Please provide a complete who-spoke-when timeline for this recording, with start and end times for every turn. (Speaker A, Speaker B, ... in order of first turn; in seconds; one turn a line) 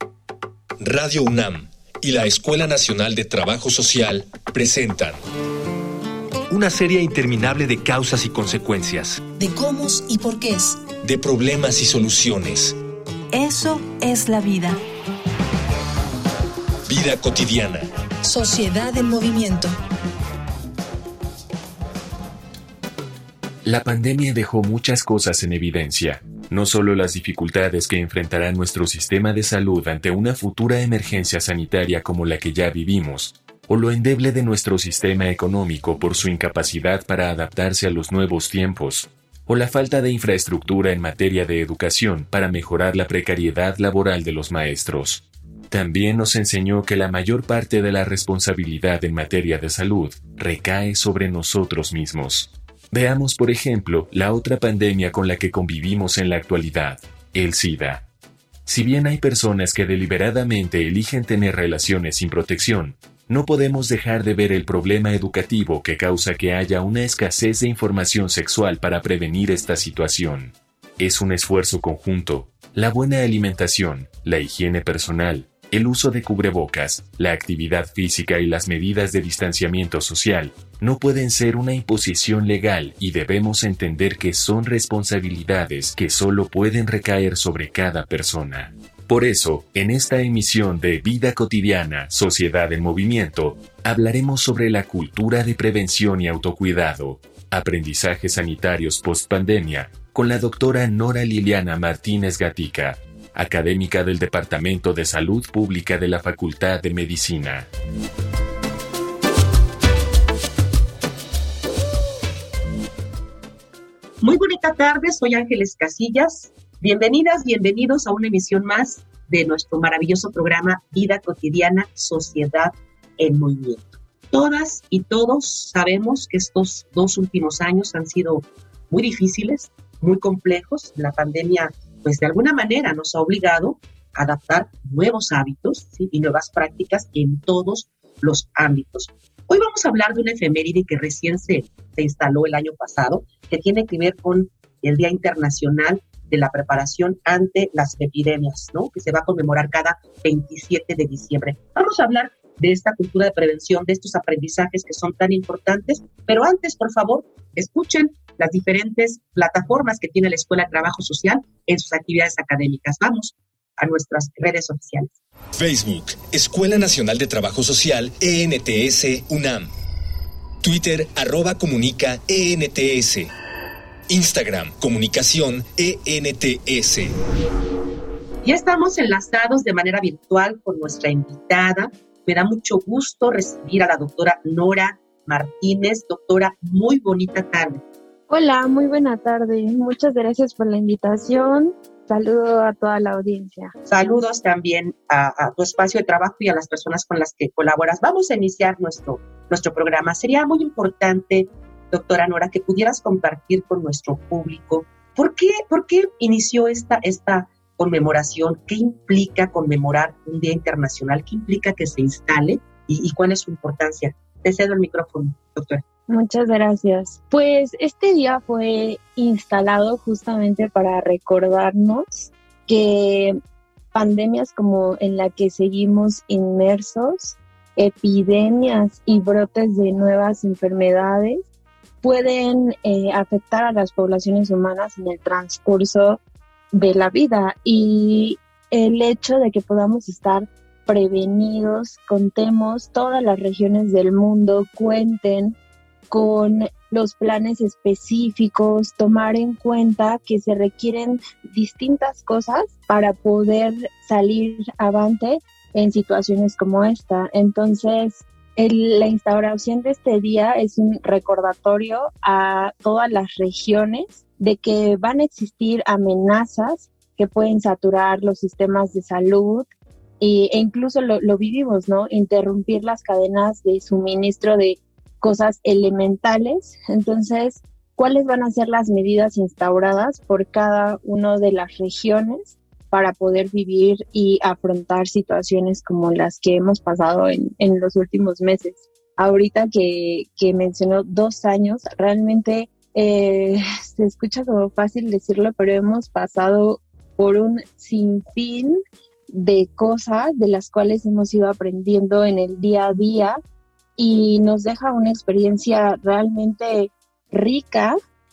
Speaker A: 0.8-5.2
Speaker A: 6.5-9.2
Speaker B: 9.4-10.8
Speaker A: 11.0-12.8
Speaker B: 13.3-14.8
Speaker A: 16.9-17.9
Speaker B: 18.2-19.8
Speaker C: 23.6-58.0
Speaker C: 58.6-107.7
Speaker D: 114.2-165.1
Speaker A: 165.6-169.7
Speaker A: 170.6-173.3
Speaker A: 174.1-177.1
Speaker D: 178.4-187.8
Speaker E: 188.3-193.7
Speaker D: 193.8-215.8
Speaker E: 216.1-223.4
Speaker E: 223.9-231.4
Speaker E: 232.0-236.2
Speaker E: 236.7-245.6
Speaker E: 246.1-269.7
Speaker E: 270.2-298.8
Speaker E: 299.3-303.4
Speaker E: 304.0-308.0